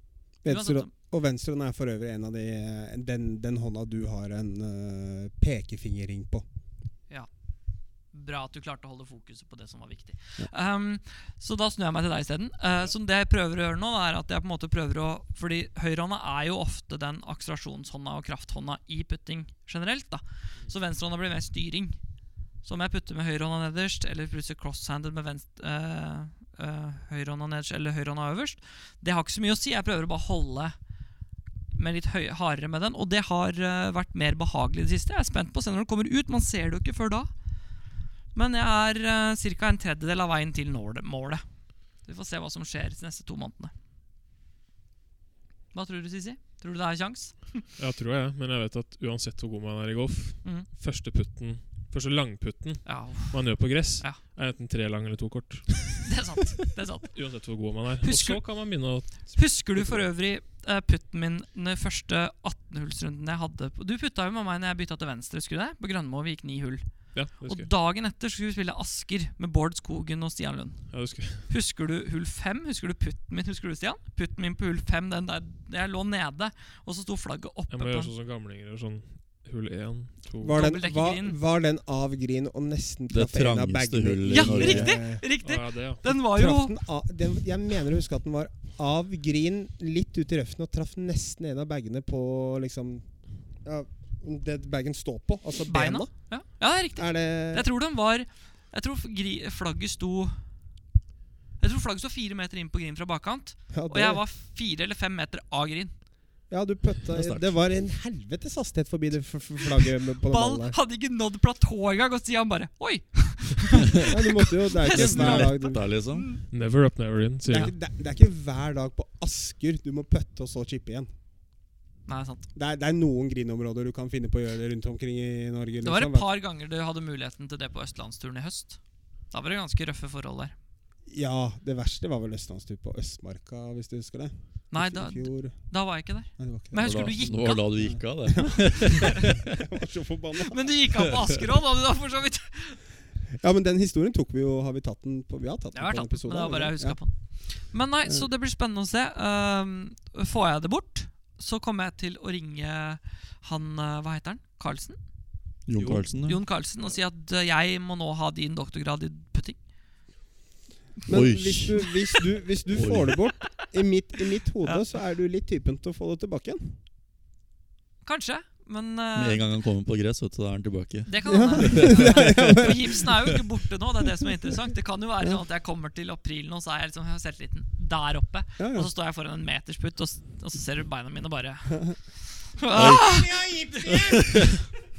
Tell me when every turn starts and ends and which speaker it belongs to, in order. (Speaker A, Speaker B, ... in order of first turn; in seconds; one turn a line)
Speaker A: 0.4-6.4
Speaker B: 0.5-0.9
Speaker B: 8.1-22.0
Speaker B: 22.6-30.7
Speaker B: 31.7-37.3
Speaker B: 38.3-41.4
Speaker B: 42.0-43.7
Speaker B: 45.7-47.6
Speaker C: 47.8-56.1
Speaker B: 52.8-54.2
Speaker B: 56.0-57.1
Speaker C: 57.1-60.0
Speaker B: 58.0-58.5
Speaker B: 59.1-78.1
Speaker C: 67.1-67.7
Speaker C: 70.9-71.5
Speaker C: 77.7-80.6
Speaker A: 80.4-85.2
Speaker B: 80.5-81.3
Speaker D: 83.1-85.0
Speaker B: 84.3-86.7
Speaker C: 85.4-86.0
Speaker A: 86.0-93.0
Speaker A: 93.6-96.1
Speaker B: 95.7-100.4
Speaker A: 96.9-97.7
Speaker B: 101.6-105.9
Speaker A: 103.7-104.2
Speaker A: 106.5-110.8
Speaker D: 107.1-107.5
Speaker B: 110.3-116.4
Speaker A: 114.0-115.8
Speaker D: 114.9-116.3
Speaker C: 116.5-117.7
Speaker A: 117.5-121.1
Speaker B: 122.1-122.4
Speaker A: 122.5-126.3
Speaker B: 125.8-130.5
Speaker A: 131.1-135.6
Speaker B: 134.7-137.7
Speaker A: 136.4-137.0
Speaker D: 136.8-139.6
Speaker A: 137.8-141.0
Speaker B: 139.0-139.3
Speaker B: 140.5-142.8
Speaker A: 143.4-147.0
Speaker B: 145.7-155.0
Speaker D: 155.7-156.4
Speaker A: 155.8-156.1
Speaker B: 155.9-159.6
Speaker A: 161.1-166.8
Speaker D: 161.1-162.0
Speaker D: 162.7-163.2
Speaker B: 168.0-169.4
Speaker D: 169.1-173.1
Speaker B: 171.1-184.4
Speaker A: 171.2-173.1
Speaker A: 178.6-178.9
Speaker D: 182.7-184.4
Speaker A: 182.8-184.6